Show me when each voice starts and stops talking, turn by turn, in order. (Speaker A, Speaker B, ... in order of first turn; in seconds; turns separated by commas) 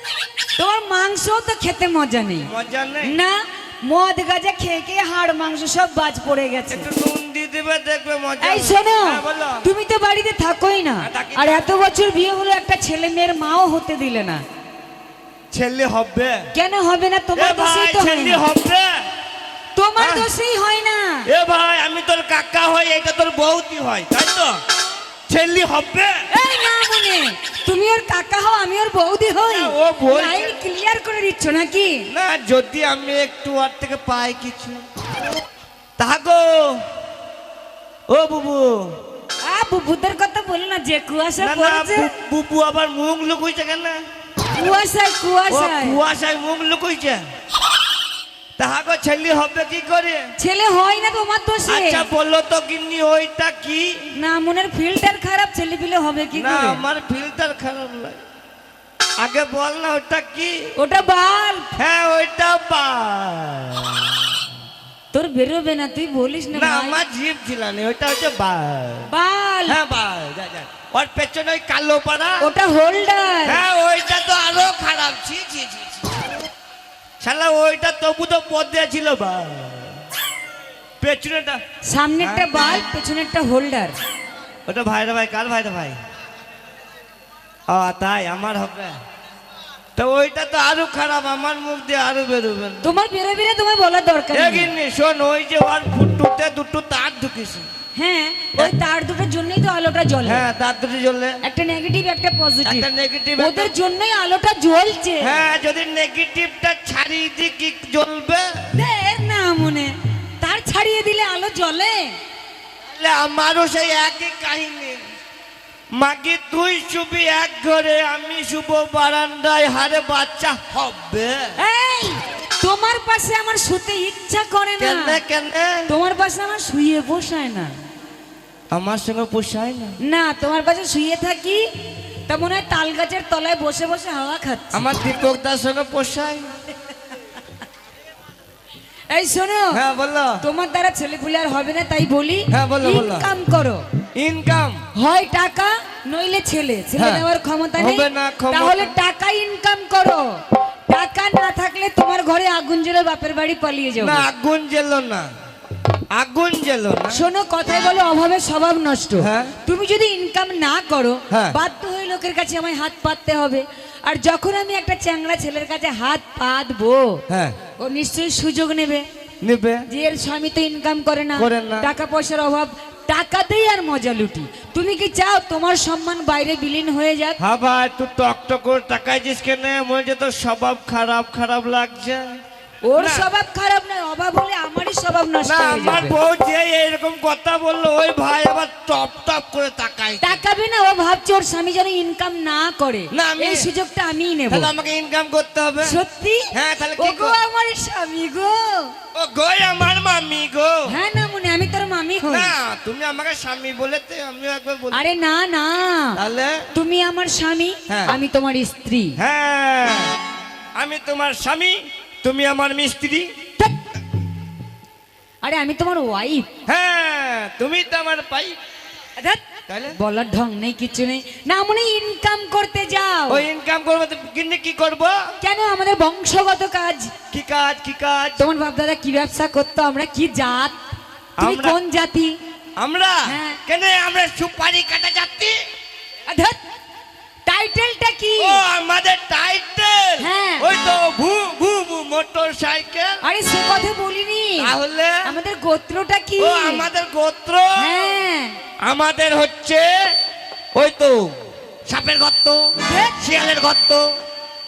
Speaker A: 0.6-2.5, Speaker B: 2.4-3.1, Speaker A: 3.0-6.9, Speaker B: 6.7-9.7, Speaker A: 8.4-14.4, Speaker B: 11.0-11.7, Speaker B: 15.5-16.5, Speaker A: 16.5-18.4, Speaker B: 17.4-19.0, Speaker A: 19.7-21.3, Speaker B: 20.0-20.3, Speaker B: 21.3-24.6, Speaker B: 25.3-26.2, Speaker A: 26.3-32.0, Speaker B: 29.4-30.4, Speaker B: 32.1-34.8, Speaker B: 36.0-36.8, Speaker B: 38.1-38.9, Speaker A: 39.4-42.1, Speaker B: 41.4-44.0, Speaker A: 44.5-46.0, Speaker B: 45.5-47.2, Speaker B: 48.6-50.3, Speaker A: 50.4-52.0, Speaker B: 51.7-54.1, Speaker A: 54.1-56.8, Speaker B: 56.3-58.2, Speaker B: 59.2-60.7, Speaker A: 60.8-61.7, Speaker B: 61.8-64.3, Speaker A: 65.1-67.0, Speaker B: 66.5-69.1, Speaker A: 69.1-69.8, Speaker B: 69.7-72.5, Speaker A: 72.4-73.6, Speaker B: 73.5-76.2, Speaker B: 77.2-80.0, Speaker B: 81.0-81.6, Speaker A: 81.8-84.0, Speaker B: 82.2-82.6, Speaker B: 84.7-86.0, Speaker B: 87.7-89.0, Speaker B: 90.0-92.9, Speaker A: 92.8-94.7, Speaker B: 94.3-97.7, Speaker A: 98.0-100.5, Speaker B: 100.2-101.4, Speaker A: 101.4-105.3, Speaker B: 102.6-103.7, Speaker B: 105.2-108.8, Speaker A: 108.7-112.2, Speaker B: 112.9-115.0, Speaker B: 115.9-121.6, Speaker A: 121.6-125.2, Speaker B: 124.8-125.9, Speaker A: 125.9-127.8, Speaker B: 128.7-130.0, Speaker A: 130.0-134.8, Speaker B: 134.7-136.5, Speaker A: 139.1-139.8, Speaker B: 139.7-140.4, Speaker A: 140.4-143.8, Speaker B: 142.5-143.3, Speaker B: 144.2-144.8, Speaker A: 144.9-154.2, Speaker B: 146.9-147.2, Speaker B: 147.8-148.9, Speaker B: 154.0-155.3, Speaker B: 156.1-157.2, Speaker A: 157.1-167.2, Speaker B: 159.2-159.6, Speaker B: 161.3-161.6, Speaker B: 167.3-167.6, Speaker A: 167.8-169.1, Speaker B: 169.4-169.8, Speaker A: 169.9-177.4, Speaker B: 171.3-171.9, Speaker B: 177.4-182.4, Speaker A: 182.8-186.2, Speaker B: 182.9-183.3, Speaker B: 185.4-190.3, Speaker A: 190.2-194.7, Speaker B: 193.1-193.7, Speaker B: 194.5-196.0, Speaker A: 195.8-198.9, Speaker B: 196.5-197.4, Speaker B: 199.1-200.9, Speaker A: 200.9-202.5, Speaker B: 202.2-205.0, Speaker A: 204.9-206.2, Speaker B: 206.2-206.7, Speaker A: 206.7-209.2, Speaker B: 207.9-208.2, Speaker B: 209.2-210.1, Speaker B: 210.8-213.3, Speaker A: 215.4-216.5, Speaker B: 216.7-218.6, Speaker A: 219.2-223.4, Speaker B: 219.7-220.0, Speaker B: 223.3-225.3, Speaker A: 225.4-227.1, Speaker B: 227.3-228.4, Speaker A: 228.4-230.8, Speaker B: 231.4-231.8, Speaker A: 231.4-232.4, Speaker B: 232.8-235.6, Speaker A: 233.2-233.6, Speaker A: 236.3-236.6, Speaker A: 237.4-238.6, Speaker B: 238.4-243.2, Speaker A: 240.2-240.7, Speaker A: 243.2-244.7, Speaker B: 244.6-245.2, Speaker A: 245.2-246.8, Speaker B: 246.4-248.2, Speaker A: 247.8-248.6, Speaker B: 248.8-250.0, Speaker B: 250.7-251.3, Speaker B: 251.9-252.6, Speaker A: 252.8-253.2, Speaker B: 253.1-254.1